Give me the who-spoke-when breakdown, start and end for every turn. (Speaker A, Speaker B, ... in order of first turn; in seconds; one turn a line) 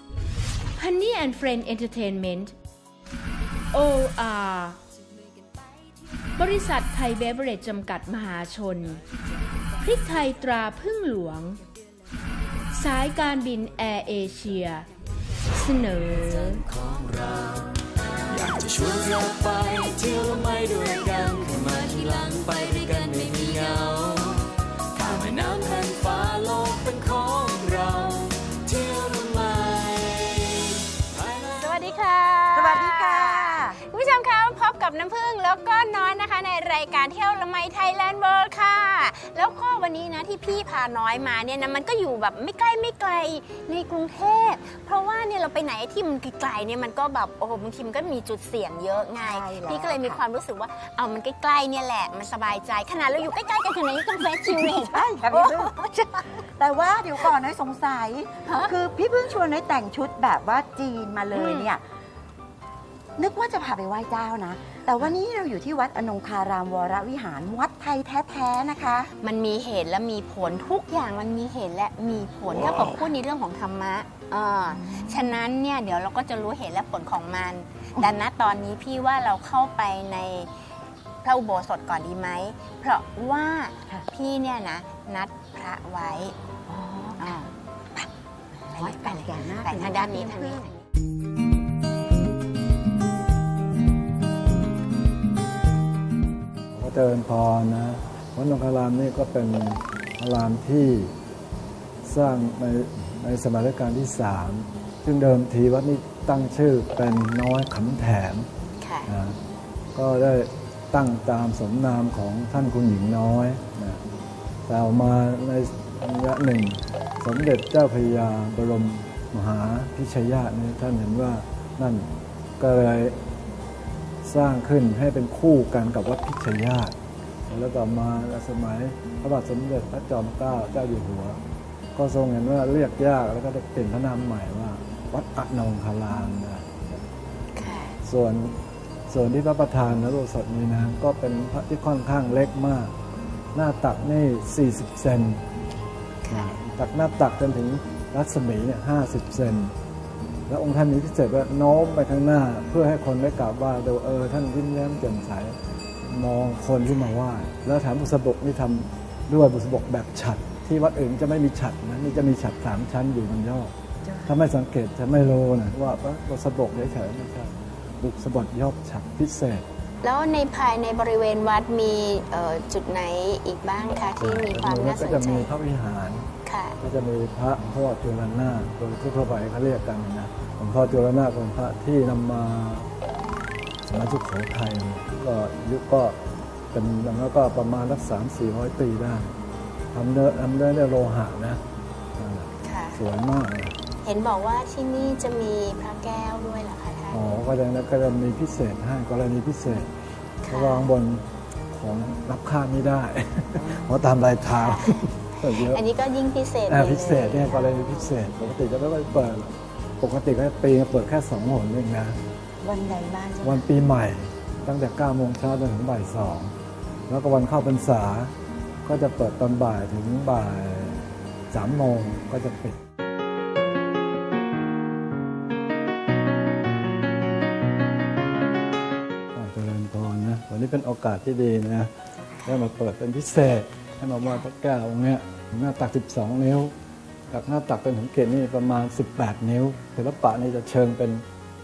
Speaker A: 0.8-2.5
Speaker A: 3.7-4.7
Speaker B: 3.7-4.7
Speaker B: 6.4-8.8
Speaker A: 7.1-7.7
Speaker A: 8.2-9.0
Speaker B: 9.8-11.6
Speaker B: 12.8-14.8
Speaker A: 13.1-13.7
Speaker A: 15.6-16.3
Speaker B: 16.2-16.6
Speaker C: 16.6-17.8
Speaker C: 18.3-31.3
Speaker A: 31.5-56.3
Speaker D: 32.5-33.8
Speaker D: 49.2-50.2
Speaker D: 54.5-55.7
Speaker D: 56.5-61.8
Speaker A: 58.4-58.7
Speaker A: 61.3-61.7
Speaker D: 63.2-69.1
Speaker A: 69.2-80.5
Speaker D: 72.5-73.1
Speaker D: 74.8-75.2
Speaker A: 81.2-86.3
Speaker D: 86.7-90.7
Speaker A: 87.2-87.4
Speaker A: 88.7-90.8
Speaker E: 96.7-101.1
Speaker E: 102.0-108.5
Speaker A: 108.8-109.1
Speaker E: 109.1-109.4
Speaker E: 109.9-114.0
Speaker E: 114.7-122.1
Speaker E: 122.6-123.2
Speaker E: 124.2-126.9
Speaker E: 127.5-131.4
Speaker E: 131.9-136.7
Speaker A: 137.5-138.0
Speaker E: 138.0-138.5
Speaker E: 139.1-142.9
Speaker E: 143.5-145.4
Speaker A: 146.2-146.6
Speaker E: 146.3-149.7
Speaker E: 150.5-163.7
Speaker E: 164.2-169.7
Speaker A: 170.0-175.5
Speaker E: 174.2-182.9
Speaker A: 176.4-176.8
Speaker E: 183.9-186.2
Speaker E: 186.7-189.3
Speaker E: 189.9-191.6
Speaker E: 192.2-193.8
Speaker A: 192.6-193.0
Speaker A: 194.0-197.2
Speaker E: 197.1-199.9
Speaker A: 200.4-200.9
Speaker E: 200.5-205.8
Speaker D: 203.6-203.9
Speaker A: 204.6-208.2
Speaker E: 206.7-212.2
Speaker D: 212.6-213.7
Speaker E: 213.4-216.5
Speaker E: 217.1-218.3
Speaker E: 218.8-222.8
Speaker E: 229.3-231.9
Speaker A: 232.4-232.7
Speaker E: 232.4-236.7
Speaker E: 237.3-241.2